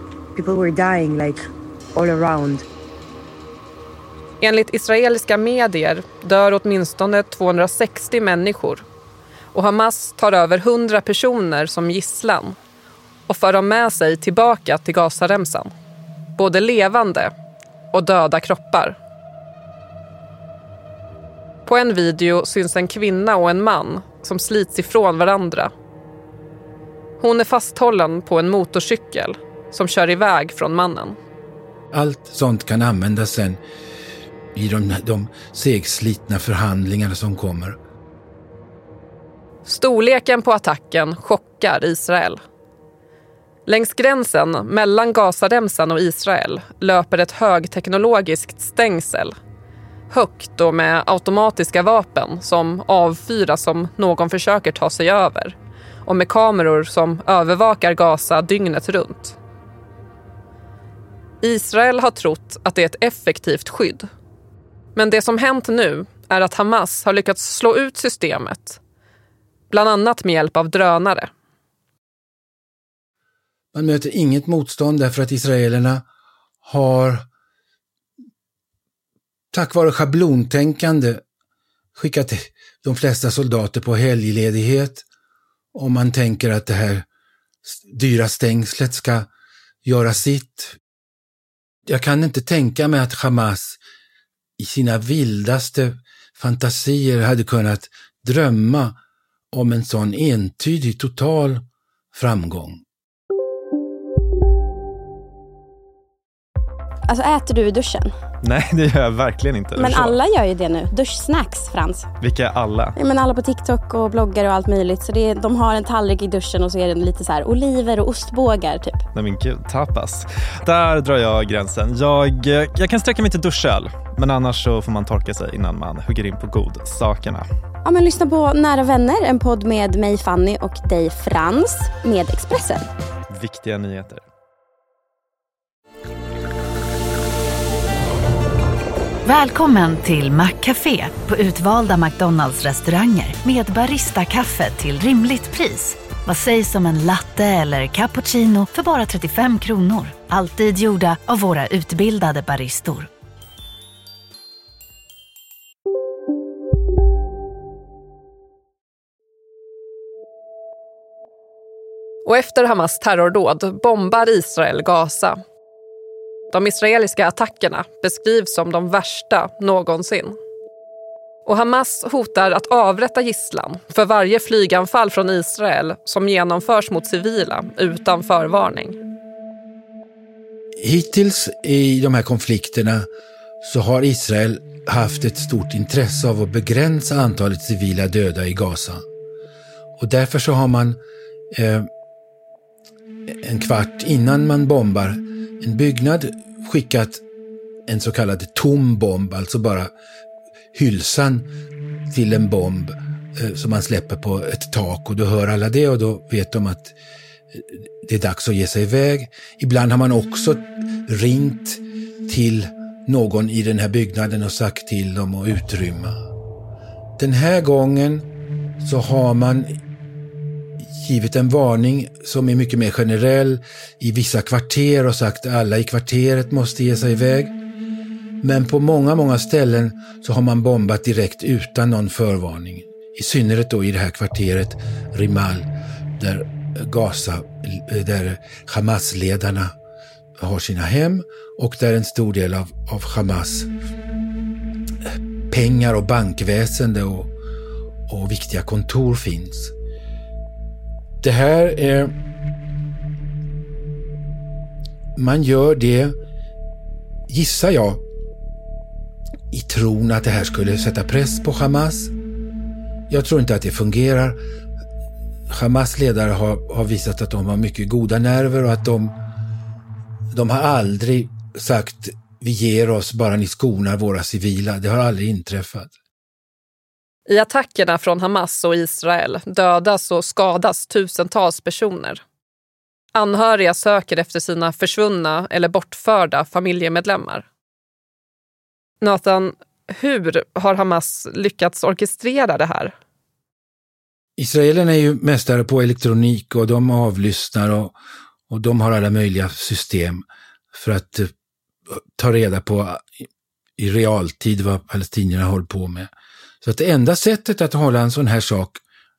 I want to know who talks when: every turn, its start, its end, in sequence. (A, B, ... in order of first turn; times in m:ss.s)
0:00.3-0:02.6 A
0:04.4-0:08.8 B
0:09.5-0:12.6 B
0:13.3-0:15.7 B
0:16.4-0:17.3 B
0:17.9-0:19.0 B
0:21.6-0:25.7 B
0:27.2-0:31.2 B
0:31.9-0:33.6 C
0:34.5-0:37.8 C
0:39.6-0:42.4 B
0:43.7-0:49.3 B
0:50.1-0:59.4 B
1:01.4-1:04.1 B
1:04.9-1:08.8 B
1:09.7-1:11.3 B
1:13.7-1:16.0 C
1:16.6-1:17.2 C
1:19.5-1:21.2 C
1:21.9-1:25.0 C
1:25.7-1:27.0 C
1:27.6-1:29.3 C
1:29.8-1:30.8 C
1:31.9-1:33.8 C
1:34.6-1:39.0 C
1:39.5-1:42.8 C
1:47.1-1:48.1 D
1:48.4-1:50.2 E
1:49.8-1:52.1 D
1:52.2-1:53.0 E
1:53.0-1:59.0 D
1:59.1-2:07.4 E
2:07.8-2:12.9 D
2:13.3-2:14.2 E
2:19.2-2:33.1 F
2:42.2-2:45.4 B
2:46.5-2:50.4 B
2:51.4-2:59.0 B
3:00.8-3:03.1 C
3:03.6-3:09.0 C
3:10.0-3:11.0 C
3:11.5-3:11.9 C
3:13.3-3:17.2 C
3:17.9-3:19.9 C
3:20.7-3:21.5 C
3:22.1-3:26.9 C
3:27.5-3:36.2 C
3:37.2-3:38.3 C
3:38.8-3:39.7 C
3:40.9-3:47.5 C
3:48.4-3:59.7 C
4:00.4-4:03.7 C
4:05.5-4:07.3 C
4:08.1-4:09.7 C
4:11.2-4:12.1 C
4:15.1-4:16.2 C
4:17.3-4:18.0 C
4:19.5-4:22.1 C
4:23.1-4:24.4 C
4:25.5-4:29.1 C
4:30.3-4:35.9 C
4:37.3-4:42.2 B
4:43.1-4:47.4 B
4:49.0-4:52.9 B
4:54.4-4:57.9 C
4:58.5-5:01.3 C
5:02.2-5:03.0 C
5:03.8-5:06.1 C
5:06.6-5:08.8 C